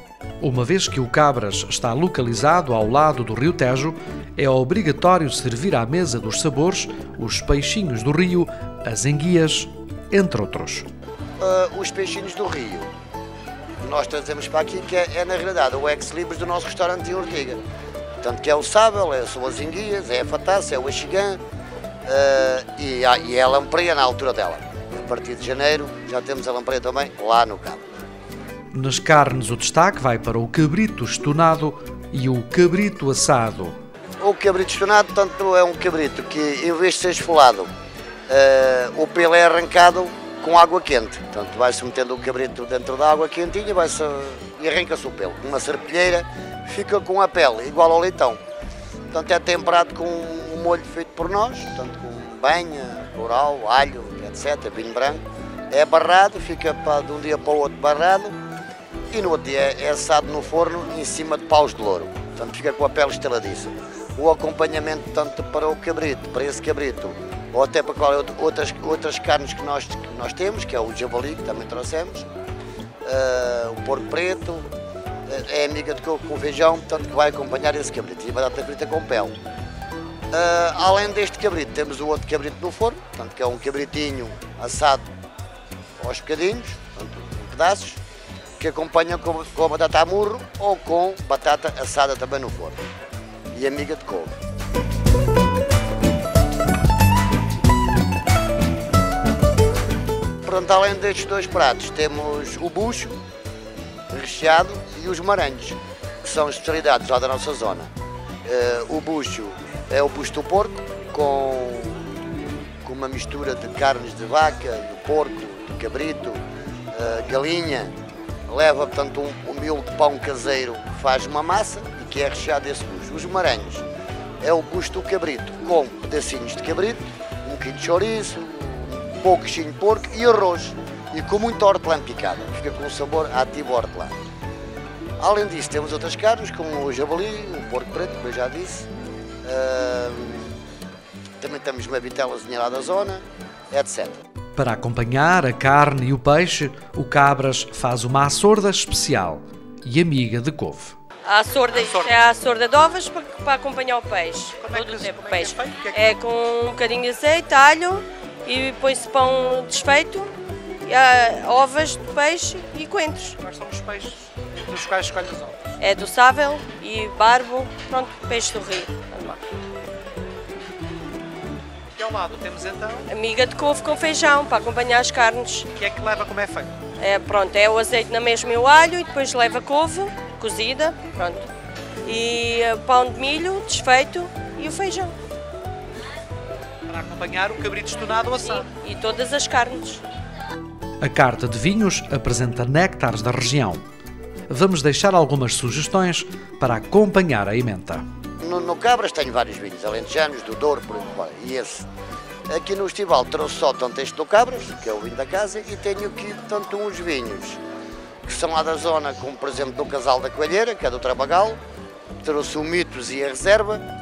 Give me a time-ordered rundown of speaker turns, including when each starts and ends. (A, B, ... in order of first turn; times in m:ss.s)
0:00.4-0:10.9 A
0:11.4-0:12.9 B
0:13.8-0:17.6 B
0:18.2-0:21.4 B
0:22.0-0:27.8 B
0:28.7-0:33.8 A
0:34.2-0:37.7 B
0:38.3-0:48.4 B
0:49.1-0:58.4 B
0:59.1-1:12.2 B
1:13.0-1:14.7 B
1:15.3-1:19.4 B
1:20.3-1:25.0 B
1:26.0-1:28.0 B
1:28.6-1:32.8 B
1:33.5-1:34.3 B
1:40.4-1:43.2 B
1:44.1-1:47.9 B
1:48.4-1:52.0 B
1:52.8-1:56.4 B
1:56.9-1:57.9 B
1:58.5-2:03.8 B
2:04.4-2:14.1 B
2:15.2-2:18.9 B
2:19.4-2:20.5 B
2:21.4-2:24.1 B
2:24.6-2:31.0 A
2:31.2-2:40.3 C
2:34.6-2:36.1 D
2:40.8-2:43.4 C
2:43.4-2:45.8 D
2:45.8-2:49.4 C
2:52.0-2:53.1 D
2:53.0-2:55.7 C
2:55.7-2:56.7 D
2:57.0-3:01.5 C
3:02.0-3:05.1 C
3:06.9-3:08.6 D
3:08.4-3:10.0 C
3:11.0-3:13.8 A
3:14.5-3:18.0 A
3:18.4-3:21.9 B
3:22.5-3:27.6 B
3:28.2-3:31.6 B
3:32.2-3:33.8 B